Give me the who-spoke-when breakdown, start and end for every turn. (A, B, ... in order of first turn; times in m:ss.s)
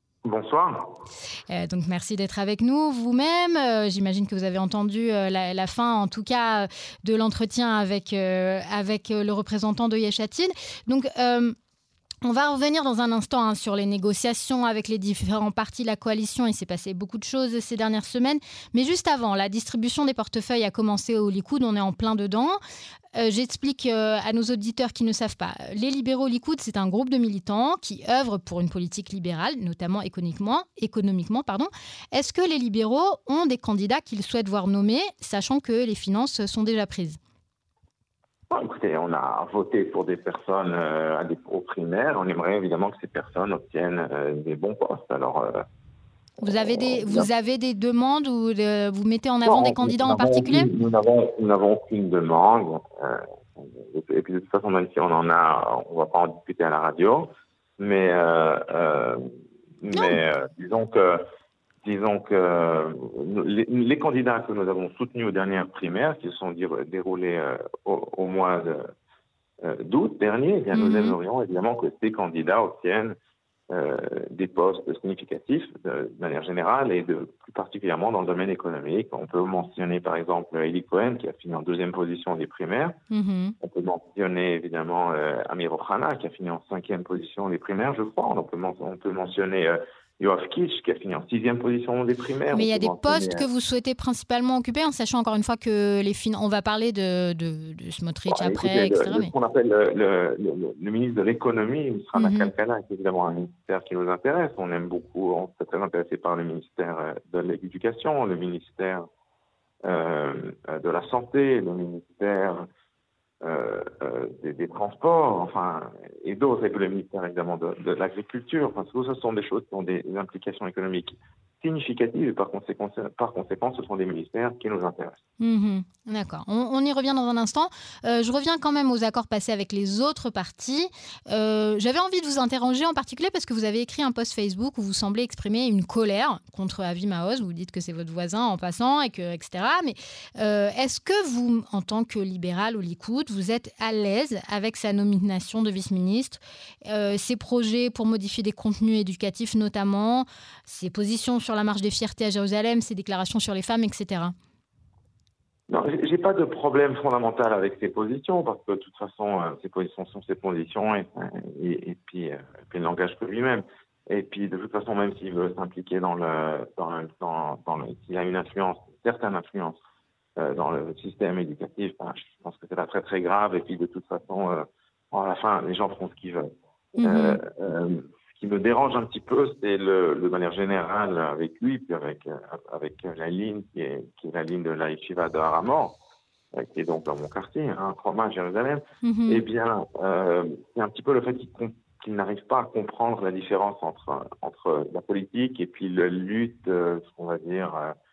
0:00.2-0:00.9 A
0:01.5-0:11.6 B
0:12.2-0:22.6 B
0:23.2-0:37.2 B
0:38.5-0:45.6 A
0:46.4-0:50.7 B
0:46.6-0:47.3 A
0:49.5-0:59.2 A
0:59.8-1:01.2 A
0:59.9-1:00.2 B
1:01.8-1:08.9 A
1:09.6-1:13.2 A
1:10.7-1:11.2 B
1:13.7-1:23.0 A
1:23.1-1:23.6 B
1:23.6-1:33.5 A
1:32.5-1:39.3 B
1:38.3-1:49.0 A
1:42.2-1:42.5 B
1:49.8-1:52.7 A
1:53.4-2:05.2 A
2:05.4-2:34.4 B
2:35.7-2:49.8 A
2:50.4-2:56.5 A
2:57.0-2:57.4 B
2:57.0-3:06.0 A
3:06.5-3:17.9 A
3:09.0-3:09.4 B